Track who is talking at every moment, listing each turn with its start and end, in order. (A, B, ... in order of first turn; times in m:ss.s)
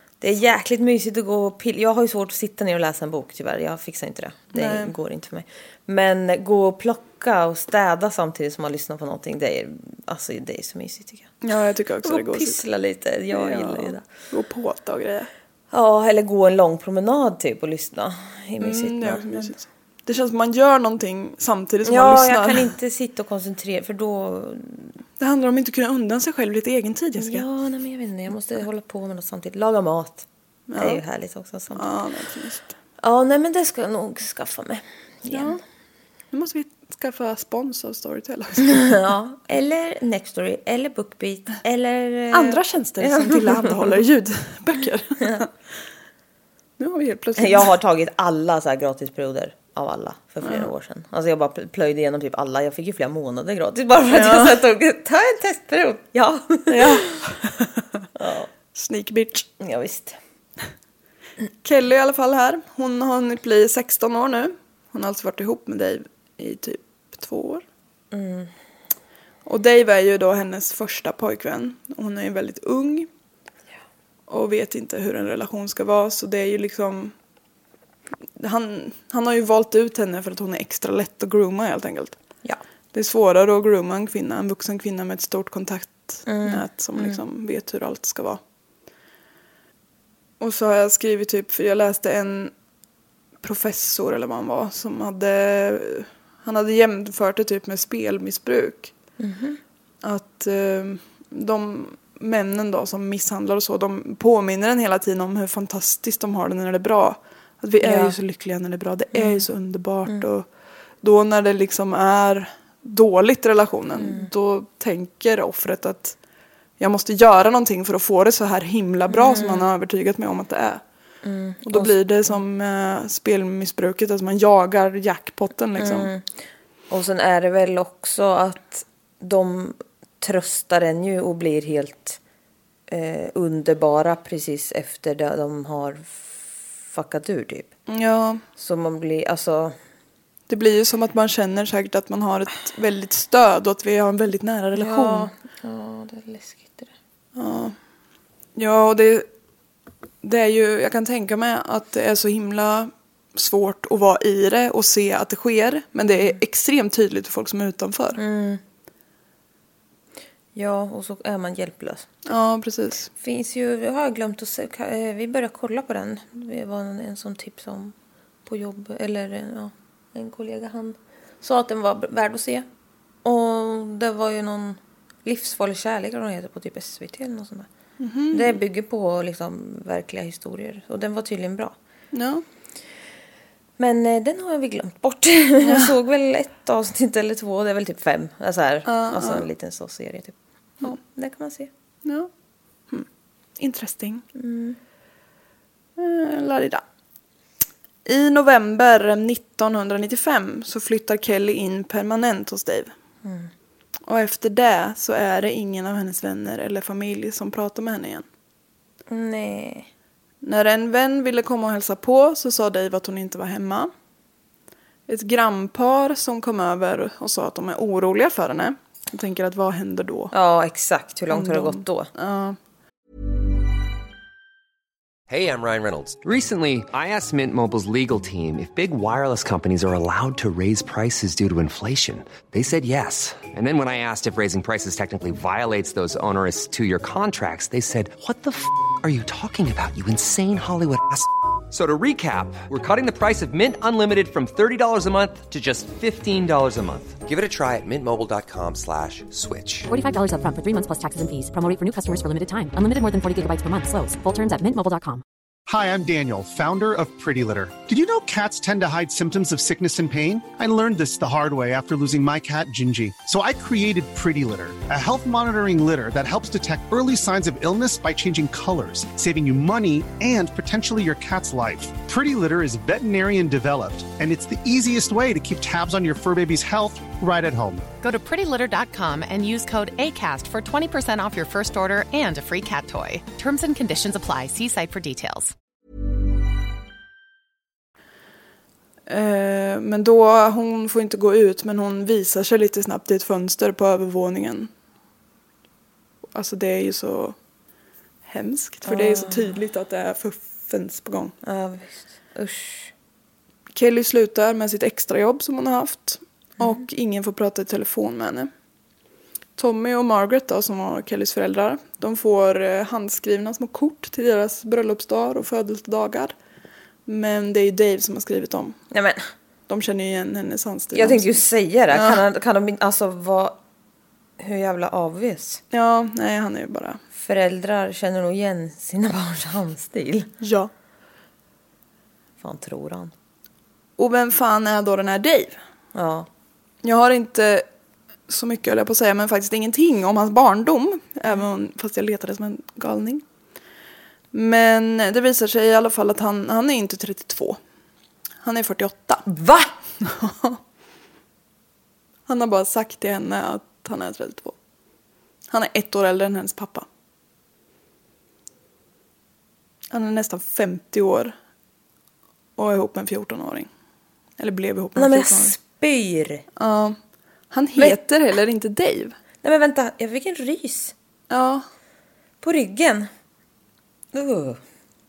0:00.2-0:11.3 A
0:04.5-0:04.9 B
0:11.4-0:12.6 B
0:12.0-0:14.0 A
0:13.3-0:15.3 B
0:15.7-0:19.5 A
0:18.6-0:22.7 B
0:21.8-0:25.0 A
0:25.2-0:27.4 B
0:27.2-0:31.8 A
0:30.7-0:31.0 B
0:31.8-0:32.7 B
0:33.0-0:35.6 A
0:35.3-0:35.6 B
0:36.3-0:38.9 B
0:38.6-0:43.8 A
0:42.3-0:45.5 B
0:46.8-0:47.7 B
0:47.4-0:57.0 A
0:50.4-0:50.7 B
0:54.1-0:54.6 B
0:56.7-0:57.7 B
0:58.2-0:58.5 A
0:58.8-0:59.5 B
0:59.6-1:00.2 A
1:01.6-1:07.6 B
1:08.1-1:08.5 A
1:09.5-1:13.1 B
1:14.3-1:17.1 B
1:18.4-1:22.2 B
1:22.9-1:28.4 B
1:26.3-1:27.2 A
1:30.4-1:32.5 B
1:33.4-1:38.9 B
1:39.2-1:39.6 A
1:40.0-1:50.5 B
1:47.8-1:48.1 A
1:49.1-1:49.4 A
1:51.0-1:56.2 B
1:54.0-1:54.3 A
1:56.8-2:00.8 B
1:59.1-1:59.7 A
2:01.2-2:02.0 A
2:01.7-2:06.1 B
2:05.8-2:06.3 A
2:06.9-2:12.2 A
2:12.9-2:17.7 A
2:17.9-2:18.4 B
2:18.6-2:19.8 A
2:20.5-2:25.3 B
2:24.8-2:26.9 A
2:27.4-2:27.8 B
2:28.6-2:29.3 B
2:30.2-2:38.2 B
2:38.2-2:38.6 A
2:40.6-2:42.1 A
2:42.3-2:43.1 B
2:43.2-2:47.9 A
2:48.5-2:52.7 A
2:53.2-2:57.7 A
2:58.0-2:58.6 B
2:58.3-3:01.8 A
3:02.1-3:02.4 B
3:03.8-3:11.7 A
3:05.6-3:05.9 B
3:08.9-3:09.5 B
3:13.6-3:14.2 B
3:14.4-3:14.8 A
3:16.0-3:16.8 B
3:18.1-3:22.9 B
3:23.2-3:23.5 A
3:24.1-3:28.3 B
3:29.1-3:29.9 A
3:30.4-3:33.9 B
3:35.1-3:40.3 B
3:40.3-3:42.1 A
3:41.3-3:42.6 B
3:45.3-4:09.9 C
4:09.9-4:15.2 D
4:15.7-4:37.8 E
4:38.0-4:45.5 F
4:49.1-4:54.7 B
4:56.3-4:57.4 B
4:58.3-5:01.3 B
4:58.9-4:59.6 A
5:01.4-5:02.9 A
5:03.8-5:08.5 B
5:09.6-5:16.3 B
5:17.1-5:18.8 B
5:18.9-5:19.2 A
5:19.7-5:21.3 B
5:20.9-5:23.6 A
5:21.9-5:22.2 B
5:24.4-5:25.6 A
5:25.7-5:27.0 B
5:27.2-5:30.3 A
5:30.4-5:30.7 B
5:32.4-5:33.1 A
5:34.0-5:35.6 B
5:36.0-5:36.3 A
5:36.8-5:37.6 B
5:38.3-5:43.2 B
5:44.3-5:47.6 B
5:48.4-5:49.3 B
5:49.3-5:49.7 A
5:50.0-5:50.6 B
5:52.3-5:54.6 B
5:55.5-5:56.9 B
5:59.9-6:01.3 B
6:02.6-6:03.7 B
6:04.4-6:05.6 B
6:05.0-6:06.4 A
6:06.6-6:07.0 B
6:07.5-6:09.2 B
6:09.4-6:10.9 A
6:11.3-6:11.6 B
6:12.4-6:13.1 A
6:14.1-6:14.6 A